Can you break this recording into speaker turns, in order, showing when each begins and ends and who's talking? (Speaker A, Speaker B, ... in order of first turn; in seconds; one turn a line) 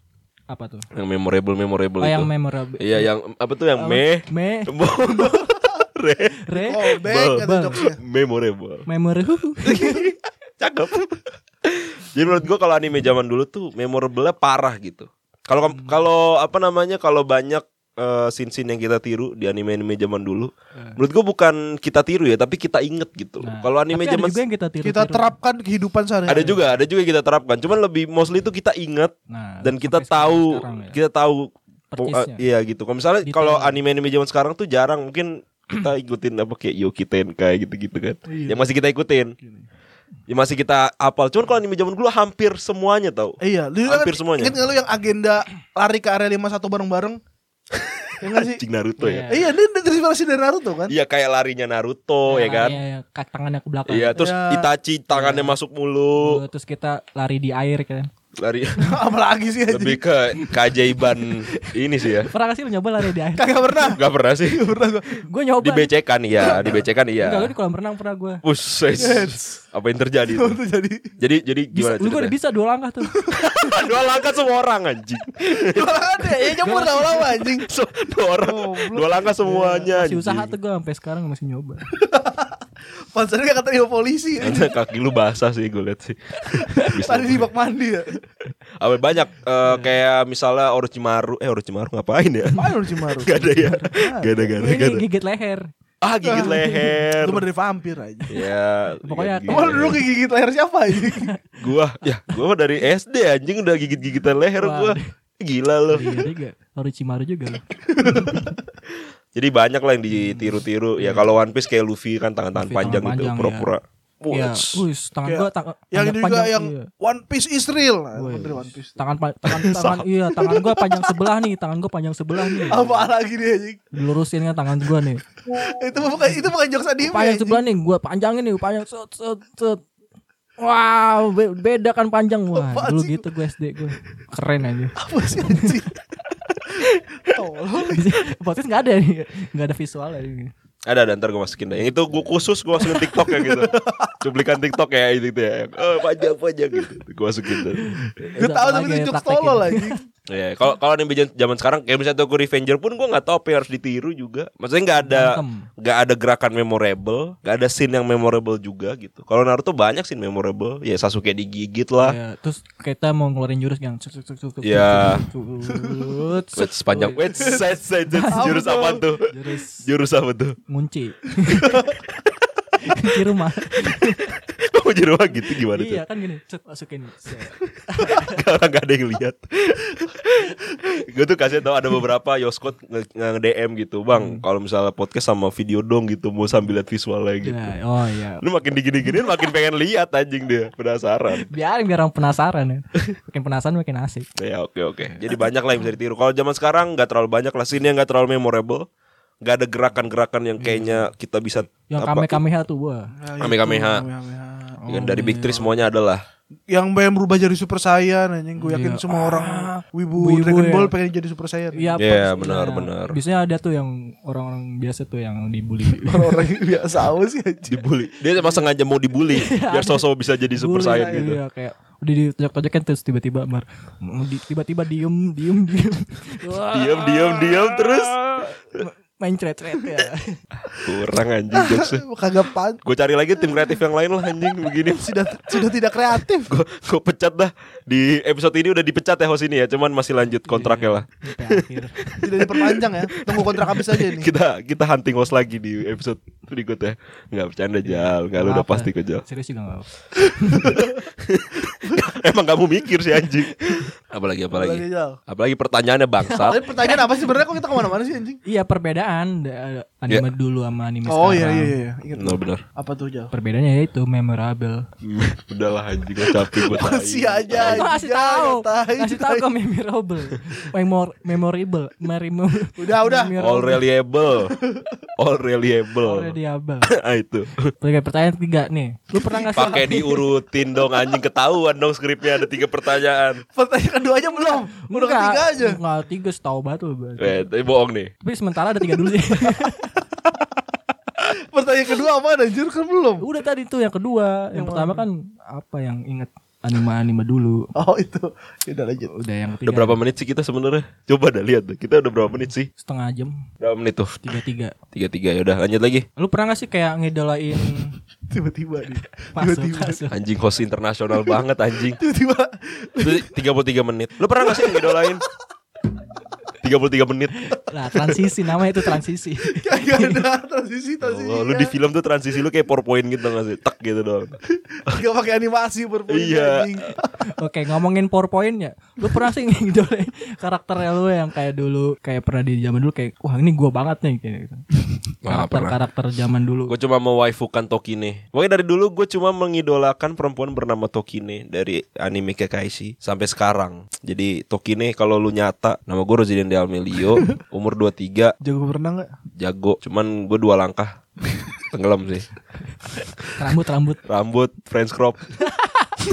Speaker A: 0.5-0.9
Speaker B: 0.9-8.9
Speaker A: 2.0-3.1
Speaker A: 3.7-5.4
Speaker A: 6.5-7.8
Speaker C: 6.5-8.0
Speaker A: 8.9-10.1
Speaker B: 9.6-24.4
Speaker A: 23.4-25.3
Speaker C: 24.8-26.6
Speaker B: 26.3-39.3
Speaker A: 29.3-31.0
Speaker A: 31.9-32.4
Speaker A: 33.2-33.8
Speaker C: 38.3-38.6
Speaker C: 39.4-39.6
Speaker B: 40.3-44.5
Speaker C: 43.4-47.2
Speaker C: 48.2-48.6
Speaker B: 48.4-49.3
Speaker A: 49.0-49.5
Speaker C: 49.3-50.9
Speaker B: 50.9-52.8
Speaker A: 52.3-54.3
Speaker B: 53.9-56.4
Speaker C: 54.1-54.7
Speaker A: 55.1-55.5
Speaker A: 56.2-58.1
Speaker B: 58.4-58.9
Speaker C: 58.8-60.0
Speaker B: 59.7-62.3
Speaker A: 62.2-63.9
Speaker C: 63.4-65.2
Speaker B: 63.9-64.8
Speaker A: 65.2-65.9
Speaker B: 65.6-67.5
Speaker C: 66.5-66.8
Speaker A: 66.7-68.4
Speaker B: 68.4-70.6
Speaker C: 69.0-69.6
Speaker C: 70.3-71.1
Speaker B: 71.2-72.3
Speaker A: 71.7-73.2
Speaker C: 73.1-73.4
Speaker B: 73.3-75.9
Speaker C: 75.6-77.7
Speaker A: 76.6-77.4
Speaker B: 77.6-80.5
Speaker C: 78.4-79.9
Speaker A: 79.9-81.9
Speaker C: 81.9-82.5
Speaker C: 83.1-84.7
Speaker B: 84.4-87.5
Speaker C: 86.7-88.2
Speaker B: 88.8-95.0
Speaker A: 89.6-89.9
Speaker C: 92.5-94.6
Speaker A: 94.6-95.7
Speaker B: 96.0-97.4
Speaker C: 96.2-98.4
Speaker A: 96.3-96.9
Speaker B: 98.3-100.0
Speaker A: 99.0-100.0
Speaker C: 99.5-101.3
Speaker A: 101.0-101.4
Speaker B: 101.6-106.2
Speaker A: 104.6-105.1
Speaker A: 105.9-108.5
Speaker C: 107.9-108.5
Speaker B: 109.3-114.8
Speaker A: 110.1-111.3
Speaker A: 112.5-113.7
Speaker A: 114.3-116.9
Speaker C: 115.2-119.0
Speaker A: 118.1-123.1
Speaker B: 119.5-120.1
Speaker C: 120.5-121.0
Speaker C: 122.6-123.9
Speaker A: 123.9-125.2
Speaker C: 125.5-127.6
Speaker A: 127.0-129.8
Speaker A: 130.6-135.8
Speaker C: 132.5-133.2
Speaker C: 135.0-135.9
Speaker C: 136.7-138.1
Speaker A: 137.8-140.5
Speaker B: 140.8-147.9
Speaker C: 143.2-144.1
Speaker A: 148.0-150.0
Speaker C: 148.3-150.0
Speaker B: 150.3-162.2
Speaker A: 155.0-155.7
Speaker A: 162.0-168.6
Speaker B: 164.6-165.2
Speaker C: 165.7-166.2
Speaker B: 166.5-170.6
Speaker C: 168.3-169.1
Speaker A: 169.3-169.9
Speaker A: 170.7-171.9
Speaker C: 171.6-171.9
Speaker A: 172.8-174.3
Speaker B: 173.8-176.0
Speaker A: 175.7-178.4
Speaker B: 178.0-187.7
Speaker A: 184.1-184.4
Speaker A: 187.4-188.4
Speaker B: 188.4-191.4
Speaker A: 191.4-194.3
Speaker B: 194.4-198.9
Speaker B: 199.4-202.4
Speaker A: 200.6-201.0
Speaker A: 201.9-203.1
Speaker C: 203.2-204.8
Speaker B: 203.4-204.0
Speaker A: 204.8-205.7
Speaker B: 204.9-206.2
Speaker C: 206.7-211.9
Speaker A: 208.6-210.9
Speaker A: 211.7-216.5
Speaker B: 212.0-213.2
Speaker C: 216.0-217.8
Speaker B: 217.7-221.4
Speaker A: 219.3-230.4
Speaker C: 220.8-221.3
Speaker B: 226.7-228.2
Speaker B: 230.7-232.0
Speaker C: 231.5-232.8
Speaker B: 232.8-235.7
Speaker C: 234.8-236.5
Speaker B: 236.5-249.2
Speaker A: 240.4-242.0
Speaker C: 242.2-244.3
Speaker A: 247.8-250.8
Speaker B: 250.6-256.6
Speaker C: 254.5-255.2
Speaker A: 256.3-257.4
Speaker C: 256.4-258.4
Speaker A: 258.4-261.7
Speaker C: 261.1-263.3
Speaker B: 262.1-262.6
Speaker A: 263.3-264.8
Speaker B: 265.0-267.9
Speaker C: 266.3-269.5
Speaker A: 267.7-273.8
Speaker C: 272.8-273.3
Speaker B: 273.4-274.5
Speaker C: 274.4-274.9
Speaker B: 275.2-276.4
Speaker A: 276.0-276.9
Speaker B: 276.9-277.7
Speaker A: 277.8-280.2
Speaker C: 279.1-280.1
Speaker B: 279.6-283.4
Speaker C: 283.5-285.8
Speaker A: 284.8-287.5
Speaker B: 287.2-288.1
Speaker A: 288.2-289.9
Speaker C: 291.3-293.2
Speaker A: 293.2-297.7
Speaker C: 294.5-295.0
Speaker C: 297.7-299.1
Speaker A: 299.1-300.0
Speaker B: 299.6-302.7
Speaker A: 302.8-303.4
Speaker B: 303.6-304.1
Speaker A: 304.2-304.7
Speaker B: 304.9-306.1
Speaker A: 306.2-308.0
Speaker C: 308.3-310.0
Speaker A: 309.4-310.1
Speaker B: 310.1-312.0
Speaker C: 312.0-313.3
Speaker B: 313.0-315.2
Speaker C: 314.4-315.2
Speaker B: 316.6-318.1
Speaker A: 317.5-320.2
Speaker C: 319.4-321.7
Speaker B: 321.0-325.0
Speaker C: 324.7-327.2
Speaker B: 326.1-326.9
Speaker A: 327.2-334.6
Speaker B: 335.2-335.8
Speaker A: 335.2-336.7
Speaker B: 336.7-348.3
Speaker C: 348.4-349.1
Speaker B: 349.3-351.0
Speaker B: 351.7-352.3
Speaker A: 353.3-354.0
Speaker B: 354.0-355.2
Speaker A: 355.4-355.9